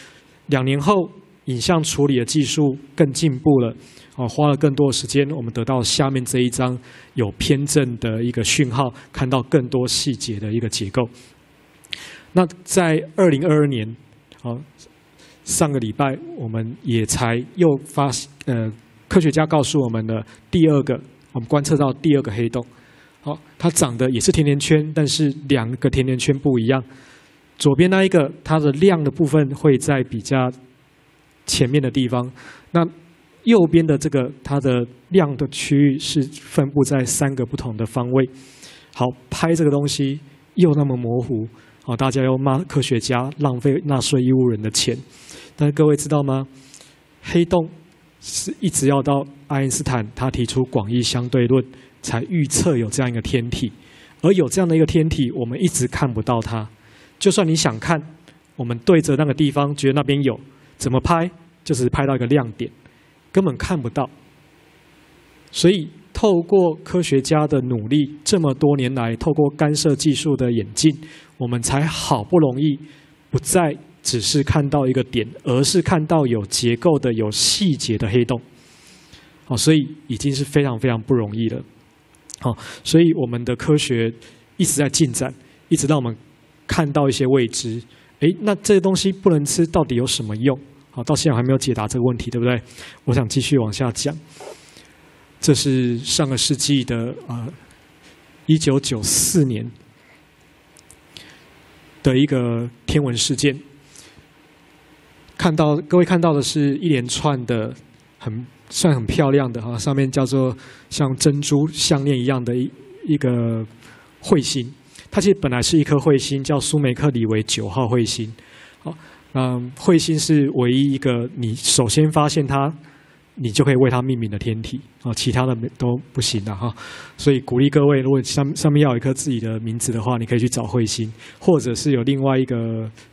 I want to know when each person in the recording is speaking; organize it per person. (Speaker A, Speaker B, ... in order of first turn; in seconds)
Speaker A: 0.5-11.1, 12.3-14.6, 15.4-22.7, 23.2-26.8, 27.6-30.5, 31.4-32.9, 33.4-38.3, 38.9-45.0, 45.6-46.5, 47.2-62.7, 63.3-64.1, 65.5-78.4, 79.5-81.6, 82.4-94.2, 95.4-97.5, 98.5-99.7, 102.0-103.6, 105.4-113.7, 114.2-122.8, 123.4-132.9